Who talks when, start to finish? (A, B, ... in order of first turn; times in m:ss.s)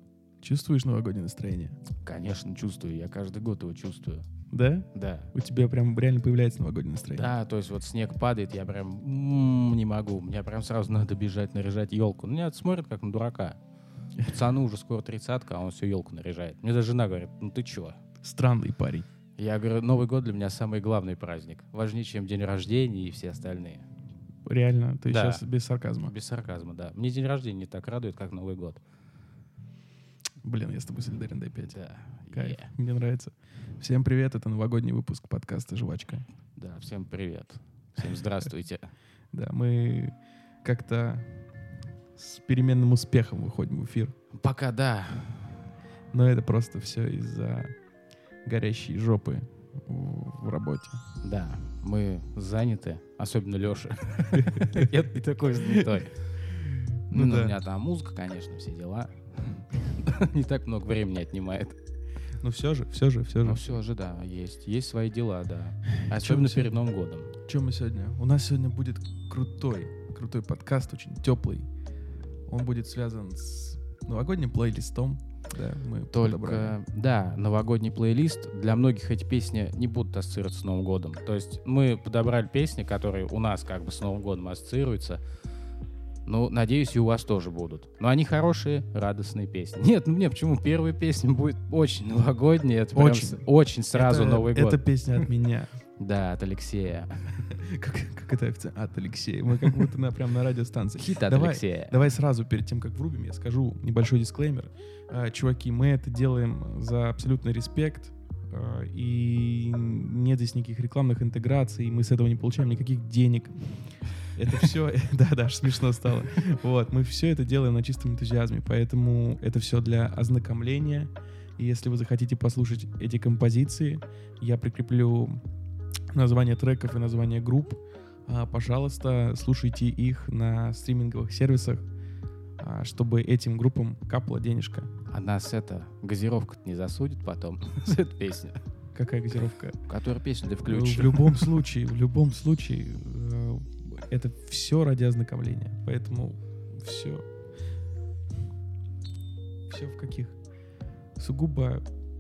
0:00.4-0:01.7 A
0:02.0-0:04.2 B
0:04.5-0:07.3 A
0:04.9-0:05.3 B
0:07.1-0:13.6 B
0:14.2-0:18.0 B
0:18.2-0:19.1 A
0:19.4-0:23.8 B
0:24.4-0:26.1 A
0:25.1-0:25.4 B
0:26.0-0:28.8 B
0:30.4-0:31.8 A
0:31.7-0:32.7 B
0:32.3-0:36.2 A
0:36.6-0:38.9 B
0:39.3-0:41.4 A
0:42.2-0:44.1 A
0:44.3-0:45.7 B
0:46.1-0:47.7 A
0:48.4-0:51.0 A
0:51.2-0:56.2 B
0:54.3-0:54.9 A
0:55.6-0:55.8 A
0:56.5-0:57.5 A
0:57.1-1:01.7 B
1:02.4-1:03.8 A
1:03.4-1:07.3 B
1:06.1-1:06.9 A
1:07.4-1:11.7 A
1:12.5-1:16.8 A
1:16.1-1:25.2 B
1:26.2-1:34.8 B
1:32.9-1:35.7 A
1:36.0-1:37.4 B
1:37.5-2:05.4 A
1:41.0-1:42.0 B
2:06.1-2:11.9 A
2:12.6-2:14.9 A
2:15.1-2:18.6 B
2:18.9-2:19.8 A
2:19.8-2:21.6 B
2:20.6-2:27.2 A
2:29.7-2:30.4 A
2:31.2-2:31.8 A